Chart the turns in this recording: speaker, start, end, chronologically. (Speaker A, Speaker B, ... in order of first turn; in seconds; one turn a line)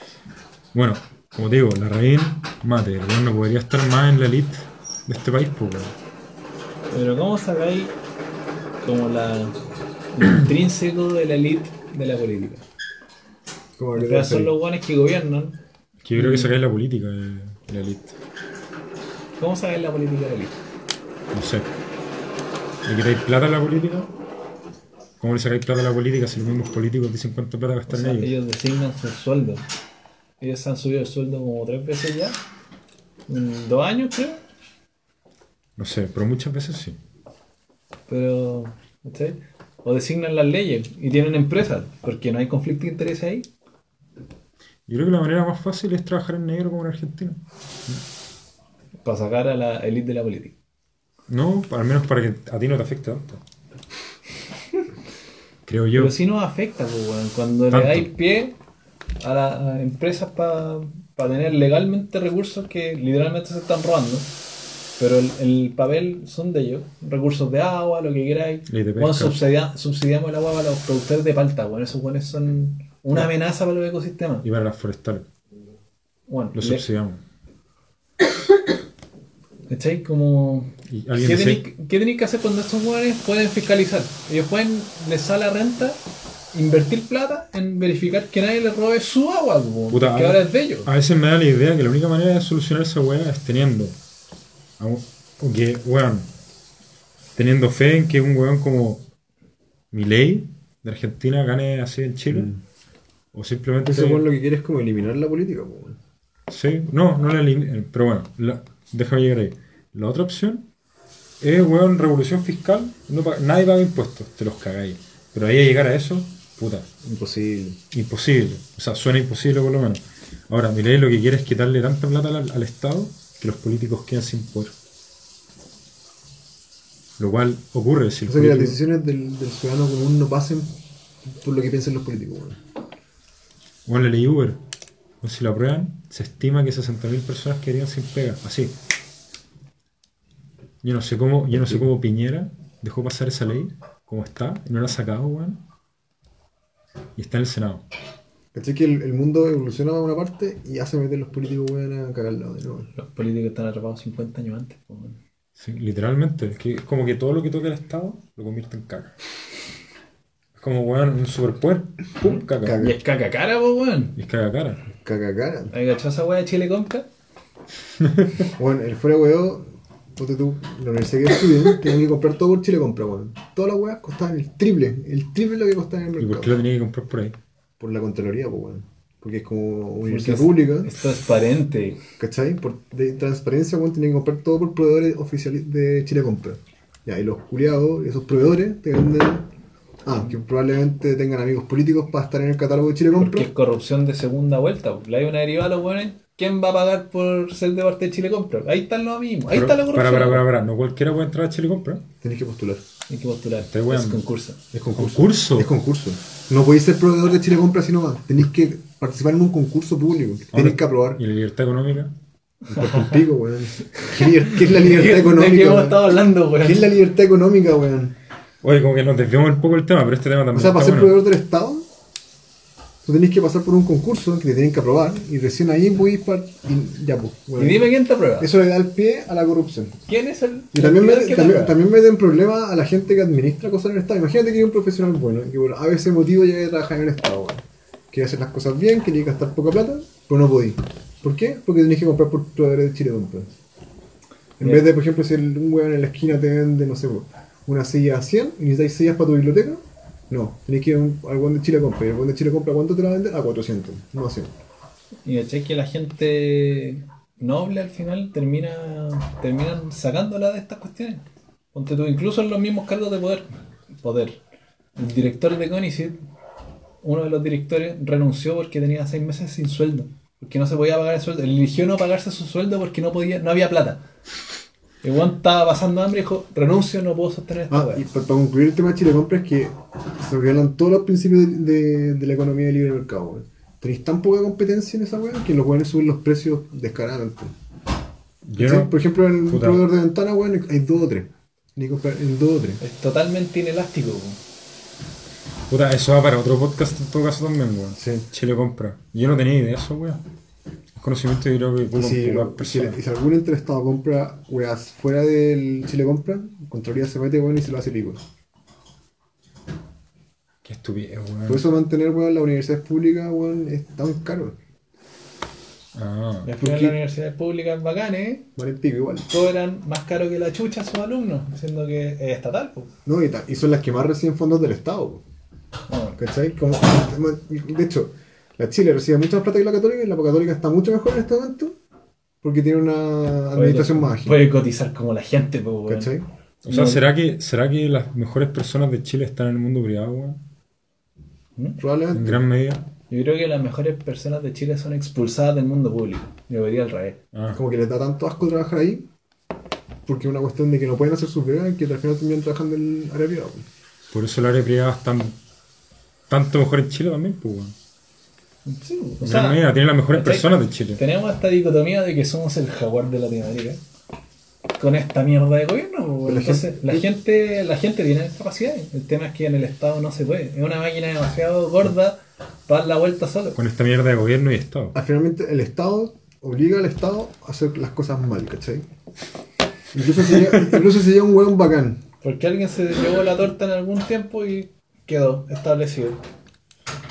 Speaker A: 0.7-6.0
Speaker B: 6.9-8.0
Speaker B: 8.8-9.6
Speaker B: 10.1-12.6
Speaker C: 13.8-14.5
Speaker B: 13.9-15.6
Speaker A: 16.0-18.2
Speaker B: 16.1-16.5
Speaker B: 19.4-20.6
Speaker A: 21.3-21.8
Speaker A: 22.9-24.1
Speaker A: 25.2-28.3
Speaker B: 27.9-29.6
Speaker B: 30.4-32.4
Speaker B: 33.3-34.4
Speaker A: 35.8-37.0
Speaker B: 38.1-43.5
Speaker A: 44.9-48.0
Speaker B: 49.0-50.5
Speaker A: 51.3-53.4
Speaker A: 55.7-56.1
Speaker B: 55.9-58.5
Speaker A: 57.7-58.1
Speaker B: 59.2-64.3
Speaker B: 65.0-74.5
Speaker A: 68.7-69.4
Speaker A: 74.4-75.3
Speaker B: 76.3-76.8
Speaker A: 76.5-77.2
Speaker B: 79.7-86.0
Speaker A: 80.9-81.7
Speaker B: 86.5-90.9
Speaker A: 89.9-94.0
Speaker A: 94.8-96.3
Speaker A: 97.4-99.0
Speaker A: 99.9-102.5
Speaker C: 102.3-102.6
Speaker A: 103.3-104.2
Speaker C: 103.8-106.0
Speaker A: 106.5-110.7
Speaker A: 111.4-116.9
Speaker C: 117.0-117.8
Speaker A: 117.9-124.7
Speaker A: 127.2-128.8
Speaker C: 128.3-130.8
Speaker C: 131.3-132.6
Speaker A: 133.9-134.6
Speaker A: 135.2-138.8
Speaker A: 140.8-145.6
Speaker C: 141.5-141.8
Speaker A: 147.2-147.8
Speaker C: 148.5-152.9
Speaker B: 152.9-155.2
Speaker A: 155.6-159.1
Speaker A: 160.6-162.8
Speaker B: 162.2-164.2
Speaker C: 162.6-163.0
Speaker A: 164.2-164.8
Speaker C: 164.9-165.7
Speaker B: 165.7-167.1
Speaker A: 168.0-168.5
Speaker C: 168.6-176.6
Speaker A: 176.2-177.4
Speaker C: 177.8-180.9
Speaker B: 180.1-182.0
Speaker C: 182.2-189.5
Speaker C: 190.1-193.5
Speaker B: 193.2-200.4
Speaker A: 199.5-202.0
Speaker C: 202.2-202.8
Speaker B: 203.1-204.6
Speaker A: 203.6-204.2
Speaker C: 204.7-211.2
Speaker A: 205.0-205.7
Speaker A: 210.5-212.1
Speaker C: 212.7-218.2
Speaker B: 212.8-213.1
Speaker B: 214.1-216.9
Speaker A: 218.6-221.2
Speaker C: 220.5-221.9
Speaker C: 223.0-230.0
Speaker B: 227.6-228.5
Speaker B: 230.1-231.8
Speaker C: 230.7-243.5
Speaker B: 244.6-244.9
Speaker C: 244.6-254.5
Speaker B: 255.2-263.5
Speaker B: 264.0-264.4
Speaker B: 265.0-266.2
Speaker B: 267.0-274.0
Speaker B: 275.0-278.0
Speaker C: 277.7-287.5
Speaker A: 288.4-289.9
Speaker C: 288.6-292.8
Speaker B: 292.8-294.4
Speaker A: 295.7-300.2
Speaker C: 298.0-298.3
Speaker A: 300.9-303.0
Speaker C: 301.9-308.2
Speaker A: 310.6-311.6
Speaker C: 311.5-314.6
Speaker A: 315.9-316.5
Speaker B: 316.5-318.5
Speaker C: 316.6-317.0
Speaker C: 318.6-319.3
Speaker B: 319.3-322.9
Speaker C: 323.1-325.2
Speaker B: 325.9-326.2
Speaker C: 326.2-331.8
Speaker C: 332.4-334.4
Speaker B: 333.6-337.0
Speaker C: 335.9-336.2
Speaker A: 336.6-340.4
Speaker C: 341.8-342.4
Speaker A: 342.1-342.9
Speaker B: 343.1-347.2
Speaker A: 347.3-347.6
Speaker C: 347.5-349.1
Speaker C: 350.1-353.7
Speaker A: 354.1-355.4
Speaker A: 356.3-357.8
Speaker B: 358.6-363.8
Speaker A: 359.2-361.0
Speaker B: 364.8-373.6
Speaker C: 366.2-367.1
Speaker A: 373.6-374.9
Speaker C: 374.9-378.9
Speaker C: 379.9-382.0
Speaker B: 382.2-386.2